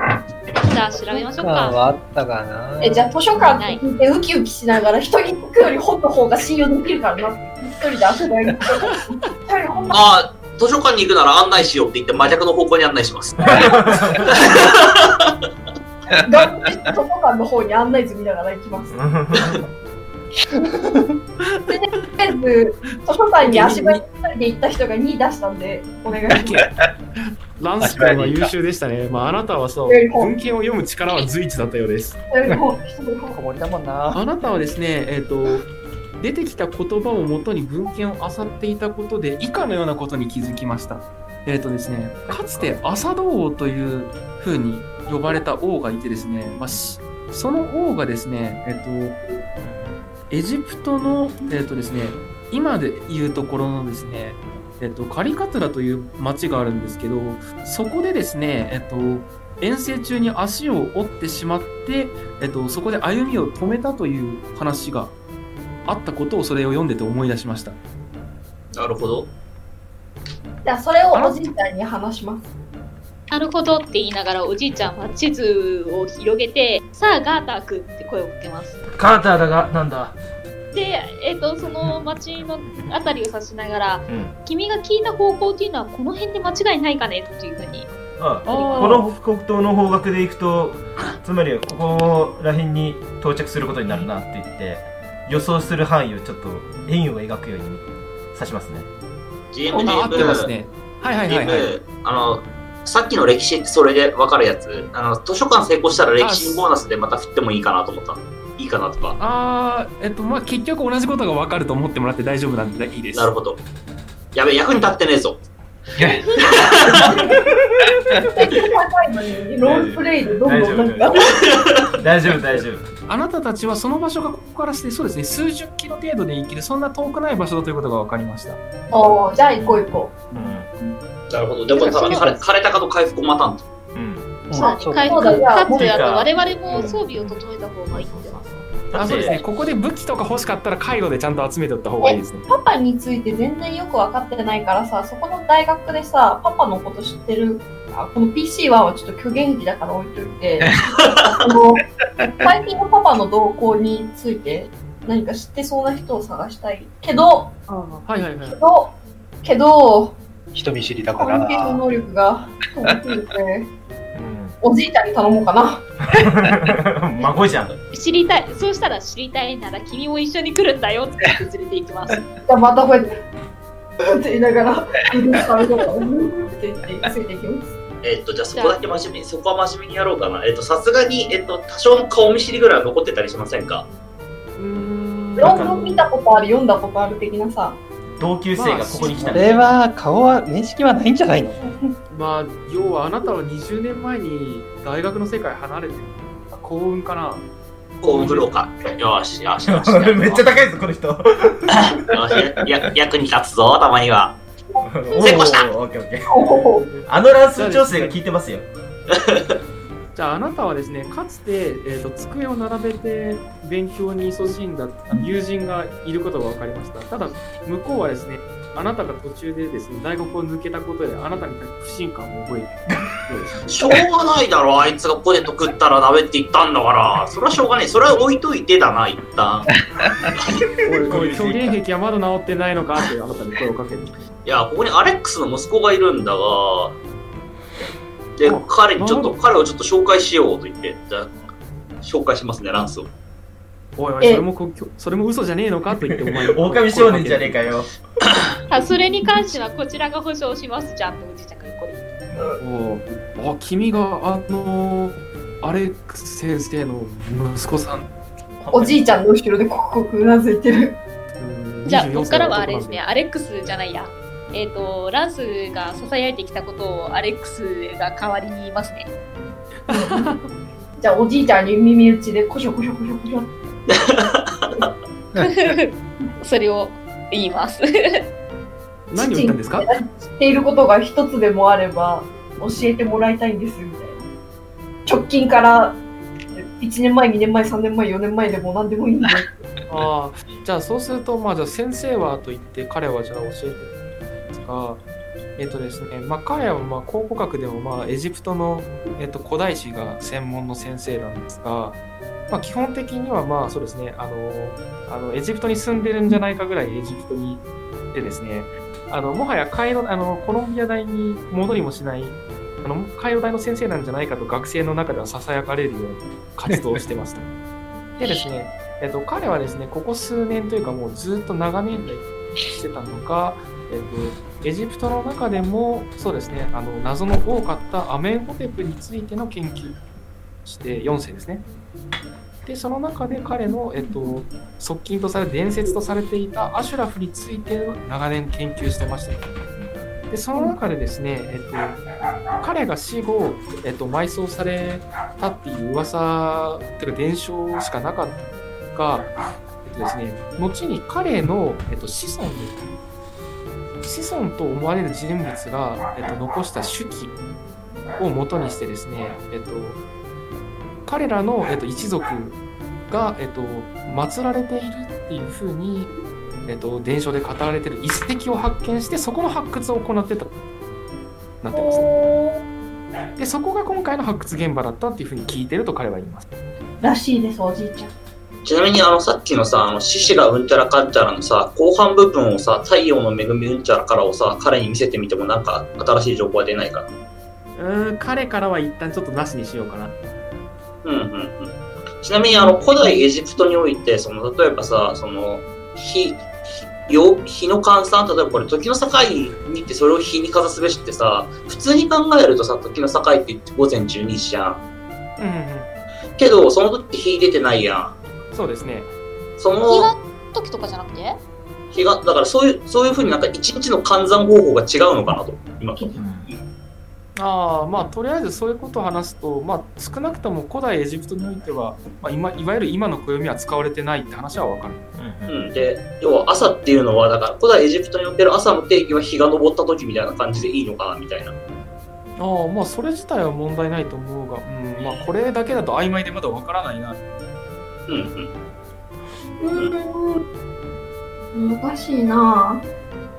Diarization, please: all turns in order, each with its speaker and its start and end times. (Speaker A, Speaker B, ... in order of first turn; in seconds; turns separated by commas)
Speaker A: 0.6-1.8, Speaker B: 1.4-3.2, Speaker C: 2.8-10.2, Speaker A: 3.5-3.8, Speaker D: 9.7-10.0, Speaker E: 9.9-13.5, Speaker D: 13.4-14.4, Speaker E: 14.3-15.1, Speaker C: 16.2-19.0, Speaker D: 18.9-19.6, Speaker B: 20.5-21.1, Speaker C: 21.7-26.5, Speaker F: 23.4-24.0, Speaker F: 26.3-26.7, Speaker B: 26.6-26.9, Speaker F: 27.6-32.2, Speaker B: 27.8-28.5, Speaker C: 29.9-30.3, Speaker C: 32.3-33.4, Speaker B: 33.3-34.2, Speaker F: 34.1-35.7, Speaker F: 36.2-49.2, Speaker B: 42.3-42.8, Speaker D: 46.7-47.0, Speaker D: 49.6-50.1, Speaker F: 50.3-65.2, Speaker F: 65.9-67.8, Speaker E: 68.8-69.3, Speaker C: 70.7-72.5, Speaker F: 71.1-71.5, Speaker A: 73.3-78.8, Speaker D: 78.9-80.2, Speaker A: 80.7-87.9, Speaker D: 81.8-83.0, Speaker D: 84.1-84.3, Speaker D: 88.2-98.9, Speaker F: 88.5-89.1, Speaker A: 88.5-89.0, Speaker E: 99.5-100.5, Speaker C: 99.7-100.2, Speaker F: 99.8-101.7, Speaker E: 101.3-109.2, Speaker F: 106.2-106.7, Speaker F: 109.2-113.3, Speaker E: 113.1-113.6, Speaker E: 114.3-115.4, Speaker B: 116.0-116.9, Speaker C: 116.9-117.4, Speaker C: 118.3-121.3, Speaker D: 119.6-121.1, Speaker D: 122.0-122.8, Speaker F: 123.1-128.6, Speaker C: 128.9-130.3, Speaker D: 129.6-130.7, Speaker E: 131.3-133.7, Speaker F: 131.7-132.4, Speaker D: 133.9-134.3, Speaker B: 134.5-135.4, Speaker C: 134.5-136.9, Speaker A: 134.5-138.4, Speaker D: 135.5-139.4, Speaker F: 138.9-142.4, Speaker C: 142.5-150.7, Speaker C: 151.4-151.8, Speaker C: 152.4-157.5, Speaker F: 157.7-158.6, Speaker C: 158.4-160.2, Speaker B: 160.5-161.8, Speaker C: 161.2-163.7, Speaker D: 164.1-164.6, Speaker C: 164.6-165.9, Speaker D: 166.2-167.7, Speaker A: 167.9-172.2, Speaker C: 172.5-173.1, Speaker C: 174.0-177.7, Speaker E: 178.0-183.9, Speaker A: 178.5-178.8, Speaker F: 184.6-186.0, Speaker C: 185.4-187.8, Speaker D: 185.4-186.0, Speaker D: 188.2-189.6, Speaker F: 188.5-189.8, Speaker B: 189.3-191.9, Speaker F: 192.1-197.4, Speaker E: 198.0-200.5, Speaker F: 198.0-198.5, Speaker D: 199.7-201.8, Speaker E: 201.7-204.4, Speaker D: 204.9-208.7, Speaker C: 205.1-205.3, Speaker E: 205.2-205.7, Speaker C: 206.3-206.9, Speaker F: 206.7-208.2, Speaker F: 210.2-223.7, Speaker E: 223.7-229.7, Speaker F: 230.8-234.3, Speaker D: 231.0-231.8, Speaker E: 234.5-236.9, Speaker E: 238.4-241.4, Speaker F: 238.4-239.4, Speaker E: 242.0-243.1, Speaker F: 244.0-247.7, Speaker D: 246.0-248.0, Speaker A: 248.7-252.1, Speaker D: 252.3-252.6, Speaker F: 252.6-258.1, Speaker D: 258.6-259.2, Speaker C: 258.7-261.0, Speaker F: 261.4-263.0, Speaker A: 261.9-269.1, Speaker C: 269.9-270.3, Speaker F: 269.9-270.4, Speaker C: 271.0-273.5, Speaker E: 274.1-274.7, Speaker A: 275.4-278.2, Speaker F: 279.1-279.9, Speaker C: 279.1-284.2, Speaker C: 285.1-286.0, Speaker C: 286.6-289.5, Speaker F: 289.9-293.9, Speaker F: 294.5-295.0, Speaker F: 295.6-302.0, Speaker F: 302.5-317.5, Speaker B: 316.7-317.0, Speaker A: 318.2-318.5, Speaker F: 318.2-330.0, Speaker F: 330.6-331.6, Speaker F: 332.6-339.4, Speaker D: 339.8-340.1, Speaker F: 340.3-342.0, Speaker F: 342.6-349.3, Speaker F: 349.8-352.8, Speaker F: 354.0-357.3, Speaker F: 358.2-360.0, Speaker F: 361.1-366.1, Speaker F: 366.7-370.5, Speaker F: 371.6-372.1, Speaker C: 371.7-372.6, Speaker F: 373.4-376.5, Speaker C: 377.0-378.1, Speaker E: 378.6-387.1, Speaker F: 387.8-390.1, Speaker E: 391.0-404.8, Speaker C: 392.5-393.3, Speaker F: 405.4-405.9, Speaker E: 406.4-408.2, Speaker F: 408.5-409.1, Speaker E: 409.6-410.1, Speaker A: 409.8-411.4, Speaker E: 411.9-416.6, Speaker D: 416.2-416.5, Speaker F: 417.4-425.0, Speaker D: 425.1-425.6, Speaker E: 425.5-431.5, Speaker F: 432.4-437.2, Speaker E: 438.1-438.5, Speaker C: 439.6-440.4, Speaker C: 441.5-442.8